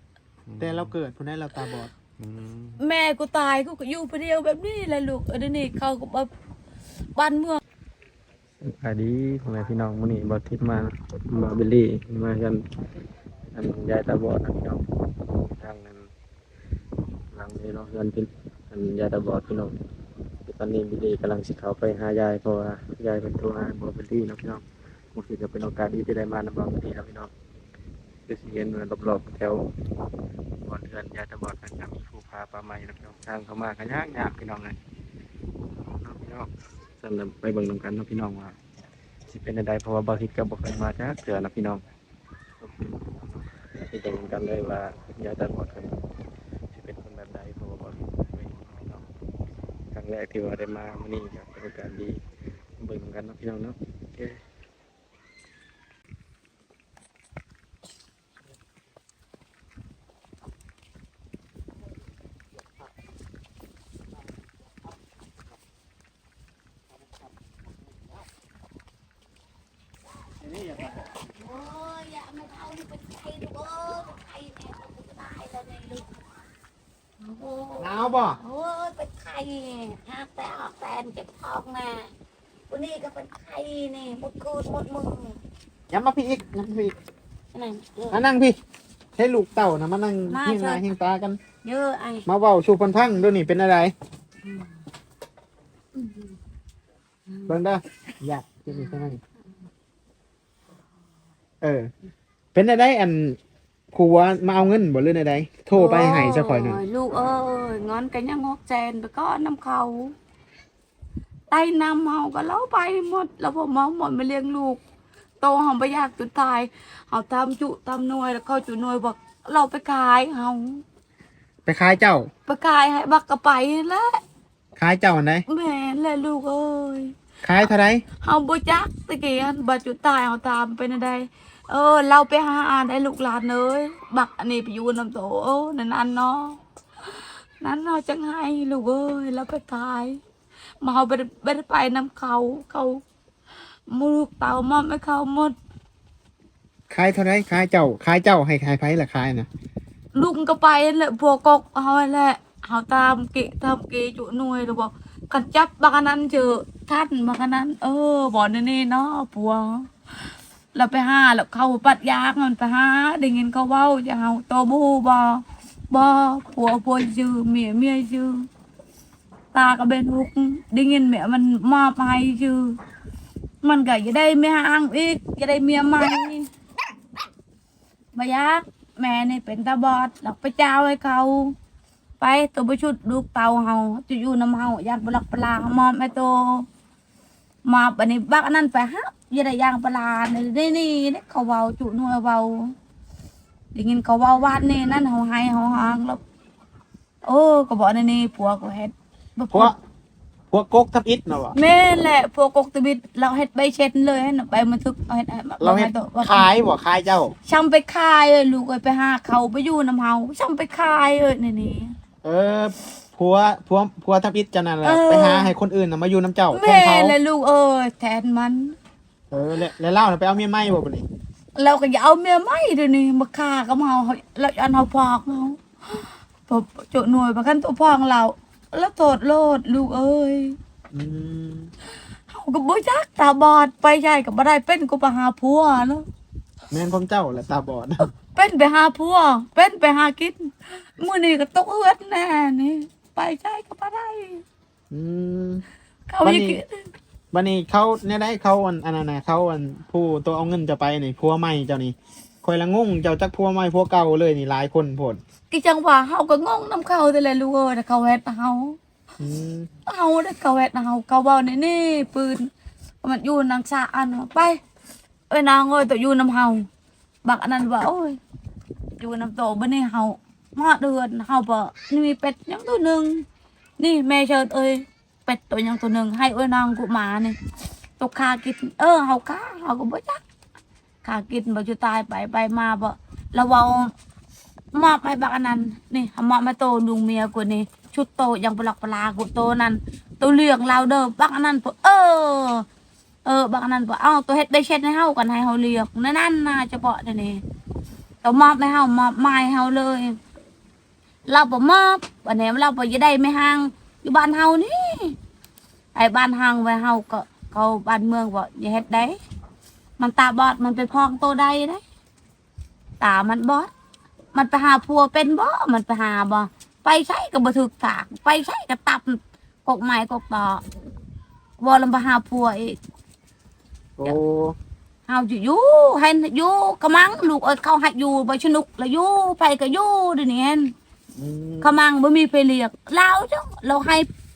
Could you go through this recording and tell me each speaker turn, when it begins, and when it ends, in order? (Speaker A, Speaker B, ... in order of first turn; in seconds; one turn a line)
Speaker A: 0.5-0.9
Speaker B: 0.6-1.9
Speaker A: 2.2-2.8
Speaker C: 2.8-6.3
Speaker C: 7.2-7.6
Speaker A: 8.6-12.6
Speaker A: 13.5-16.1
Speaker A: 17.3-19.8
Speaker A: 20.5-24.6
Speaker A: 25.1-27.3
Speaker A: 28.3-29.7
Speaker A: 30.6-34.8
Speaker A: 35.8-36.5
Speaker A: 37.0-38.6
Speaker A: 39.3-41.8
Speaker A: 42.6-46.0
Speaker A: 46.7-49.0
Speaker A: 49.9-52.2
Speaker A: 52.8-54.4
Speaker B: 70.5-70.9
Speaker C: 71.2-76.1
Speaker C: 77.2-82.1
Speaker B: 77.8-78.4
Speaker C: 82.7-85.4
Speaker B: 85.9-86.9
Speaker C: 87.5-88.2
Speaker B: 88.1-88.6
Speaker B: 89.2-91.4
Speaker C: 90.3-90.8
Speaker C: 91.6-92.3
Speaker B: 92.3-93.9
Speaker C: 96.0-96.3
Speaker C: 97.3-97.5
Speaker B: 97.5-99.2
Speaker B: 101.6-101.9
Speaker B: 102.5-103.4
Speaker B: 103.9-106.8
Speaker C: 105.7-110.2
Speaker C: 111.5-114.8
Speaker C: 115.4-120.8
Speaker B: 121.7-122.3
Speaker C: 122.5-124.2
Speaker B: 124.8-125.5
Speaker C: 125.5-127.1
Speaker B: 127.4-128.0
Speaker C: 128.2-136.6
Speaker C: 137.6-140.2
Speaker C: 140.8-143.0
Speaker C: 143.9-145.6
Speaker B: 146.9-149.5
Speaker C: 150.2-159.9
Speaker C: 160.7-168.5
Speaker C: 169.5-172.8
Speaker C: 173.6-176.5
Speaker C: 178.1-181.6
Speaker C: 182.2-186.7
Speaker C: 187.7-192.7
Speaker C: 193.7-196.2
Speaker C: 197.2-199.7
Speaker B: 200.5-201.6
Speaker C: 201.6-206.5
Speaker B: 205.6-207.3
Speaker C: 207.5-211.9
Speaker B: 212.2-217.2
Speaker C: 214.8-215.5
Speaker C: 216.5-218.8
Speaker B: 219.3-221.1
Speaker C: 221.6-230.6
Speaker B: 230.9-231.7
Speaker C: 232.3-236.1
Speaker B: 236.7-238.1
Speaker C: 238.0-244.4
Speaker B: 244.9-245.6
Speaker C: 246.1-246.9
Speaker B: 246.2-246.6
Speaker B: 247.3-255.2
Speaker C: 255.5-258.8
Speaker B: 259.2-259.7
Speaker C: 259.9-262.5
Speaker C: 263.0-264.6
Speaker C: 265.3-266.7
Speaker C: 267.2-268.2
Speaker C: 269.0-273.2
Speaker C: 273.8-277.4
Speaker C: 278.0-280.2
Speaker C: 281.0-283.9
Speaker C: 284.7-292.7
Speaker C: 293.2-297.4
Speaker C: 298.2-300.2
Speaker C: 301.3-305.2
Speaker C: 305.9-309.2
Speaker C: 310.0-311.8
Speaker C: 313.0-313.7
Speaker C: 314.3-320.6
Speaker C: 321.6-322.8
Speaker B: 324.0-324.6
Speaker C: 325.1-330.7
Speaker B: 331.2-331.7
Speaker C: 331.6-334.1